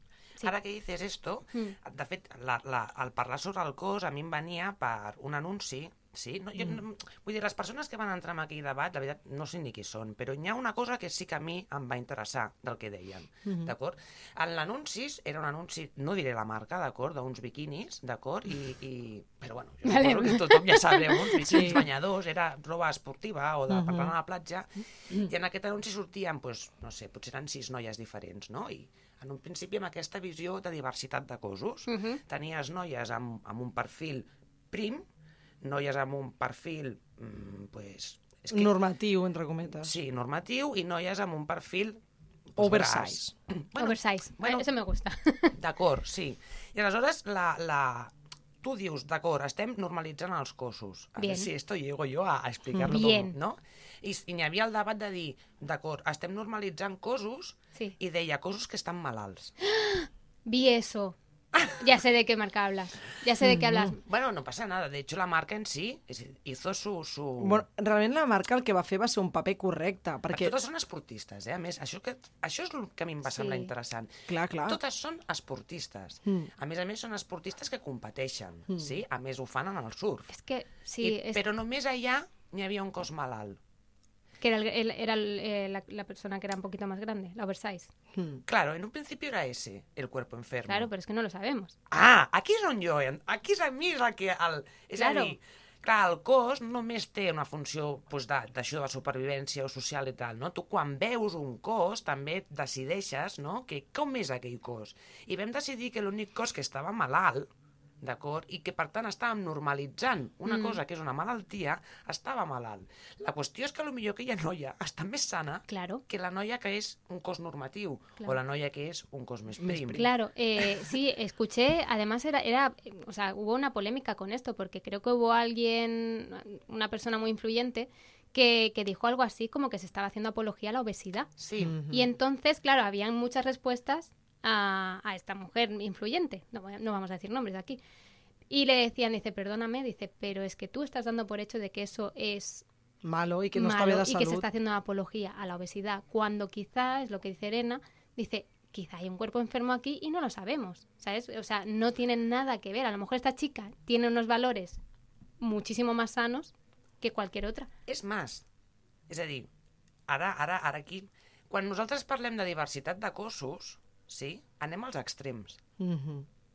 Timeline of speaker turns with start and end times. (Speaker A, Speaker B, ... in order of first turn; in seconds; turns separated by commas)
Speaker A: 0.4-35.0, Speaker B: 13.5-13.7, Speaker C: 19.9-21.8, Speaker B: 21.5-21.9, Speaker B: 23.7-24.1, Speaker C: 31.9-32.2, Speaker A: 35.6-38.7, Speaker B: 38.5-39.9, Speaker A: 39.8-42.0, Speaker A: 42.5-44.7, Speaker B: 42.6-43.3, Speaker C: 43.8-45.5, Speaker A: 45.5-59.5, Speaker C: 51.2-51.5, Speaker C: 52.8-53.4, Speaker C: 59.6-61.2, Speaker C: 61.7-64.0, Speaker B: 63.4-63.9, Speaker A: 64.0-67.6, Speaker B: 67.4-70.5, Speaker A: 70.3-74.1, Speaker C: 73.3-73.7, Speaker B: 74.3-74.8, Speaker A: 74.7-80.3, Speaker C: 80.3-81.4, Speaker A: 81.0-83.6, Speaker C: 84.4-87.9, Speaker B: 88.1-88.4, Speaker A: 88.5-90.9, Speaker C: 90.7-91.8, Speaker A: 91.9-107.5, Speaker C: 95.0-95.4, Speaker A: 108.0-120.0, Speaker C: 110.5-110.8, Speaker C: 115.7-116.0, Speaker B: 119.6-120.1, Speaker C: 119.9-131.3, Speaker A: 131.4-131.8, Speaker B: 131.6-132.1, Speaker C: 131.9-137.8, Speaker C: 138.5-142.7, Speaker B: 143.0-144.5, Speaker C: 143.6-154.8, Speaker C: 155.4-157.7, Speaker A: 157.9-158.4, Speaker A: 159.1-159.5, Speaker A: 160.1-165.6, Speaker B: 165.8-166.3